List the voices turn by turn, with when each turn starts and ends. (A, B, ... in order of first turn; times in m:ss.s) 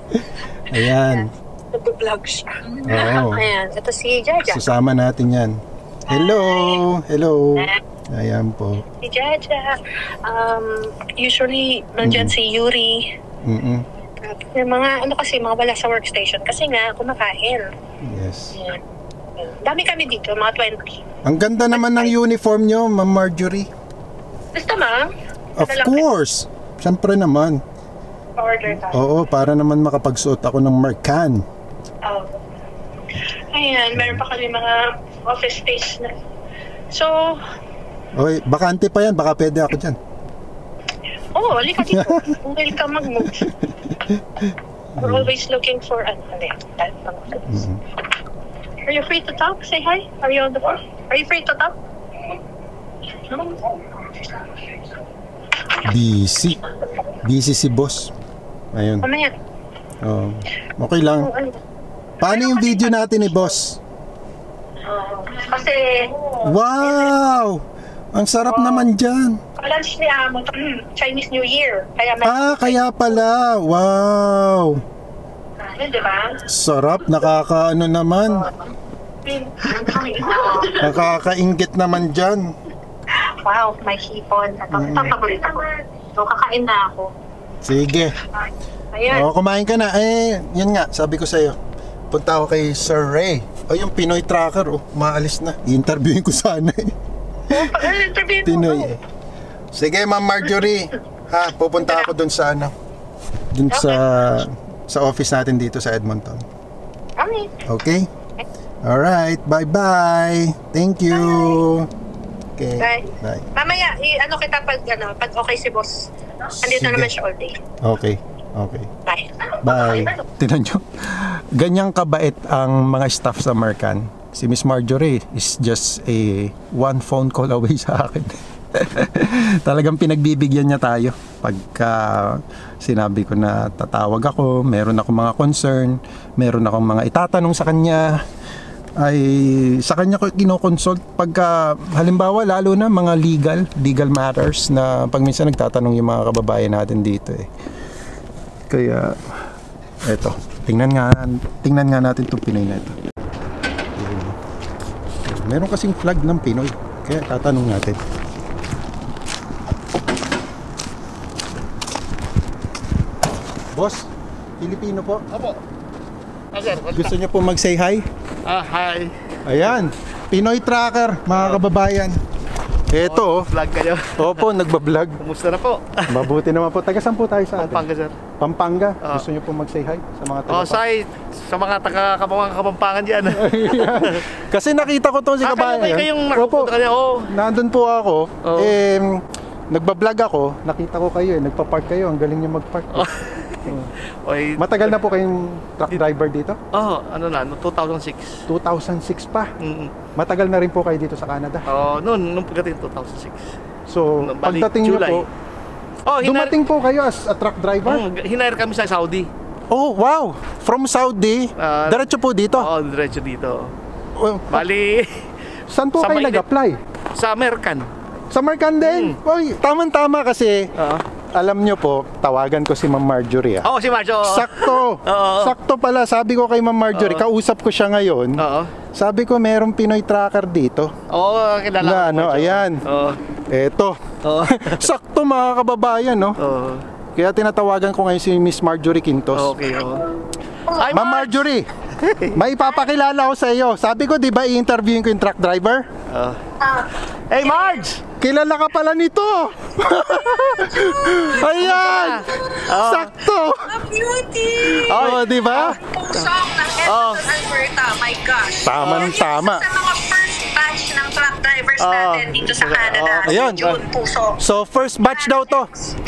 0:00.7-0:01.3 A
0:00.7-0:04.6 B
0:02.9-0:03.5 A
0:04.5-0:05.6 A
0:06.1-0:06.8 B
0:06.1-0:08.8 A
0:09.0-0:13.1 B
0:12.0-0:12.3 A
0:13.4-0:13.8 A
0:14.2-0:17.7 B
0:18.0-0:18.6 A
0:18.5-0:18.8 B
0:19.4-0:21.0 B
0:21.2-0:23.7 A
0:21.7-0:22.2 B
0:24.5-0:26.1 B
0:25.6-0:27.6 A
0:28.4-0:29.0 B
0:28.8-0:31.4 A
0:32.0-0:32.4 B
0:33.1-0:36.2 B
0:34.0-0:34.2 A
0:36.9-0:37.4 B
0:38.2-0:40.0 A
0:41.3-0:43.5 B
0:41.9-0:42.4 A
0:43.4-0:45.3 A
0:45.0-0:47.6 B
0:47.5-0:47.8 A
0:48.8-0:51.8 B
0:53.2-0:54.8 B
0:55.8-0:56.6 A
0:57.2-0:58.1 A
0:58.7-0:59.1 A
0:59.0-0:59.4 B
1:00.0-1:01.3 A
1:01.2-1:01.6 B
1:02.2-1:03.0 B
1:02.2-1:03.8 A
1:04.8-1:07.1 B
1:06.4-1:07.6 A
1:08.1-1:09.4 A
1:08.5-1:08.9 B
1:09.6-1:13.2 B
1:12.2-1:14.8 A
1:15.6-1:16.4 B
1:16.5-1:18.5 A
1:19.2-1:21.2 B
1:20.8-1:22.5 A
1:23.2-1:27.1 B
1:24.7-1:25.2 A
1:27.6-1:28.1 A
1:28.9-1:29.3 B
1:29.1-1:31.6 A
1:32.1-1:36.9 A
1:37.5-1:38.9 B
1:38.4-1:39.0 A
1:39.7-1:42.7 A
1:41.8-1:42.1 B
1:43.5-1:46.4 A
1:43.7-1:44.4 B
1:47.2-1:47.6 B
1:47.7-1:48.1 A
1:48.8-1:51.9 A
1:51.1-1:51.6 B
1:52.6-1:53.5 A
1:52.8-1:56.1 B
1:56.6-1:57.1 A
1:56.6-1:57.6 B
1:57.8-1:58.9 A
1:59.1-2:00.2 B
1:59.6-2:18.1 A
2:19.0-2:27.5 A
2:28.7-2:29.2 A
2:30.1-2:33.0 A
2:34.0-2:34.4 A
2:35.2-2:38.0 A
2:43.7-2:44.1 A
2:44.6-2:45.2 A
2:45.3-2:45.6 C
2:46.5-2:47.1 C
2:46.9-2:48.1 A
2:48.5-2:49.1 C
2:49.4-2:52.2 A
2:51.3-2:51.6 C
2:52.9-2:53.5 A
2:53.0-2:54.5 C
2:54.2-2:55.2 A
2:55.2-2:56.3 C
2:56.1-2:57.8 A
2:57.6-2:58.1 C
2:58.4-3:00.8 A
3:00.5-3:04.2 C
3:03.3-3:06.7 A
3:05.4-3:07.3 C
3:07.3-3:09.2 A
3:08.4-3:08.7 C
3:09.7-3:13.1 A
3:12.9-3:13.6 C
3:13.7-3:13.9 A
3:14.2-3:15.0 C
3:14.6-3:16.6 A
3:16.7-3:18.4 C
3:18.5-3:19.5 A
3:19.6-3:19.9 C
3:20.2-3:21.6 A
3:21.7-3:23.5 C
3:23.9-3:25.3 A
3:24.2-3:25.2 C
3:26.1-3:26.6 C
3:26.2-3:28.0 A
3:27.9-3:29.3 C
3:29.7-3:32.7 A
3:31.6-3:32.1 C
3:32.6-3:33.7 C
3:34.2-3:34.7 A
3:34.5-3:35.3 C
3:35.7-3:36.8 A
3:36.0-3:36.4 C
3:37.2-3:37.9 C
3:38.3-3:40.7 A
3:38.8-3:39.2 C
3:40.8-3:41.0 C
3:41.4-3:43.7 A
3:43.6-3:45.5 C
3:44.2-3:48.4 A
3:46.9-3:47.2 C
3:48.4-3:48.7 C
3:49.0-3:50.9 A
3:51.1-3:53.2 C
3:51.8-3:52.8 A
3:53.5-3:56.4 A
3:54.2-3:54.9 C
3:56.4-3:56.8 C
3:57.2-3:59.5 A
3:59.4-4:00.1 C
4:00.7-4:01.2 B
4:00.7-4:01.3 C
4:00.9-4:01.7 A
4:02.0-4:02.4 C
4:02.3-4:05.9 A
4:06.1-4:06.4 C
4:06.6-4:07.9 B
4:07.3-4:08.0 C
4:08.2-4:13.7 A
4:10.3-4:12.6 B
4:11.4-4:13.1 C
4:13.5-4:24.4 B
4:14.6-4:15.8 A
4:14.9-4:16.3 C
4:16.8-4:17.2 C
4:18.6-4:19.6 A
4:18.8-4:19.1 C
4:21.8-4:23.8 C
4:23.3-4:23.6 A
4:24.4-4:25.7 A
4:25.0-4:26.0 B